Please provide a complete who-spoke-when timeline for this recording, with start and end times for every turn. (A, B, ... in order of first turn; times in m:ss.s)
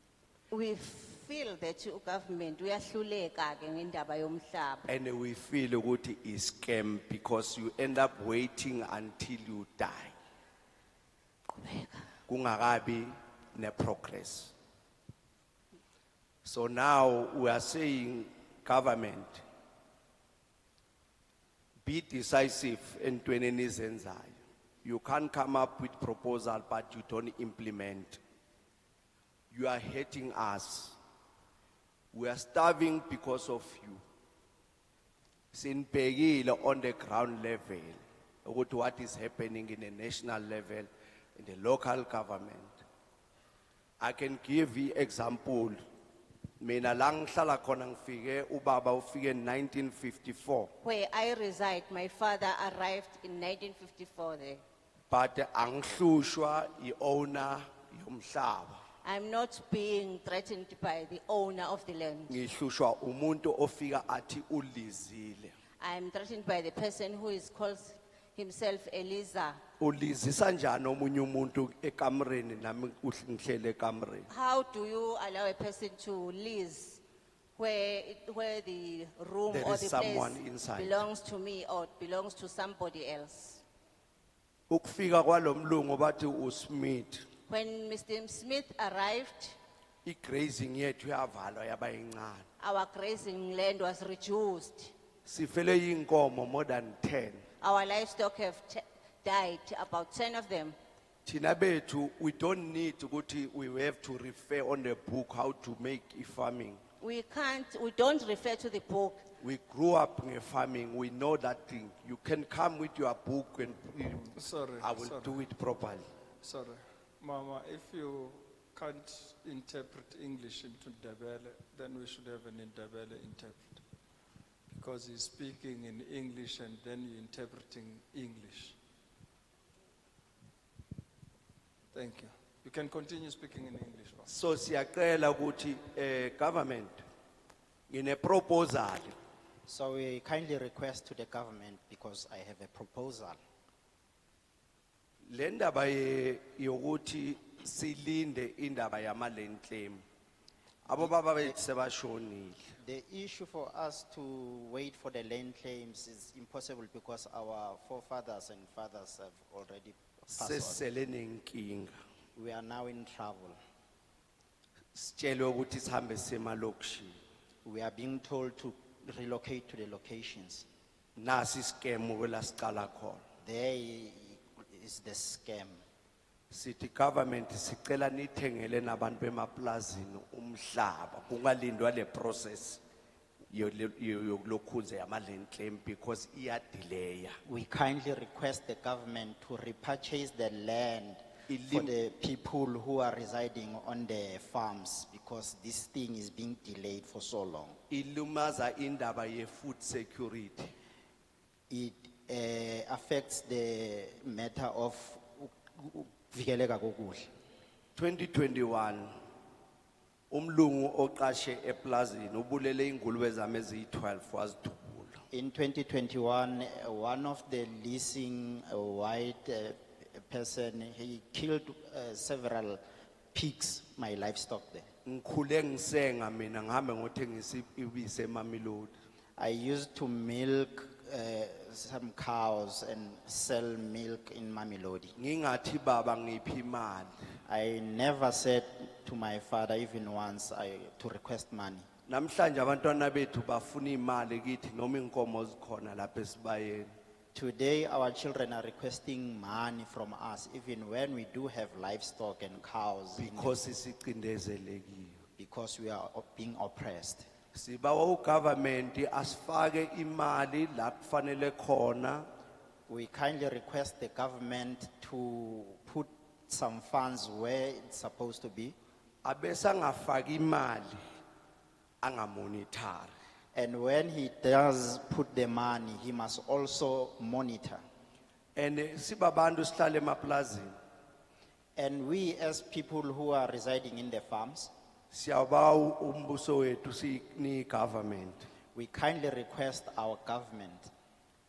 0:00.5-0:04.9 A
0:04.9-0:10.2 B
0:11.5-0:12.1 A
0:12.3-0:14.5 B
0:16.4-0:19.4 B
0:21.8-0:28.2 B
0:29.5-0:31.0 B
0:32.1-0:34.0 B
0:35.5-0:42.8 B
0:44.0-0:45.8 B
0:46.6-0:50.7 B
0:50.8-0:54.6 A
0:55.1-0:58.8 B
0:59.0-1:02.4 A
1:02.3-1:05.6 B
1:05.8-1:09.6 A
1:09.8-1:14.3 B
1:14.3-1:17.0 A
1:17.6-1:23.6 A
1:19.5-1:21.0 B
1:24.7-1:27.3 B
1:27.5-1:29.6 A
1:30.0-1:32.5 B
1:32.6-1:34.9 A
1:35.2-1:37.4 B
1:37.6-1:40.8 A
1:41.3-1:46.8 B
1:47.0-1:49.2 A
1:49.4-1:56.1 B
1:54.4-1:55.4 C
1:56.4-2:03.8 C
2:04.7-2:08.8 C
2:11.9-2:14.3 C
2:14.3-2:17.0 B
2:17.9-2:19.2 B
2:19.7-2:23.4 D
2:25.3-2:30.0 B
2:30.8-2:32.6 B
2:32.8-2:40.8 D
2:40.3-2:41.9 B
2:42.4-2:43.6 D
2:44.9-2:47.2 B
2:47.6-2:50.7 D
2:51.2-2:53.2 B
2:53.4-2:55.8 D
2:56.5-3:02.8 B
3:03.5-3:07.4 B
3:07.5-3:17.8 D
3:11.5-3:12.0 B
3:17.9-3:20.7 B
3:21.7-3:27.3 D
3:28.0-3:29.1 B
3:30.3-3:35.2 B
3:35.3-3:42.8 D
3:43.3-3:44.9 D
3:45.0-3:48.9 B
3:49.4-3:55.2 D
3:55.2-3:57.1 B
3:57.5-4:01.9 D
4:02.1-4:06.9 B
4:07.3-4:13.6 D
4:13.2-4:15.2 B
4:15.4-4:17.3 D
4:17.5-4:22.3 B
4:22.9-4:28.8 D
4:29.2-4:31.0 B
4:32.0-4:33.1 B
4:33.6-4:37.8 D
4:38.6-4:40.8 B
4:41.8-4:44.7 D
4:45.1-4:48.5 B
4:48.7-4:50.9 D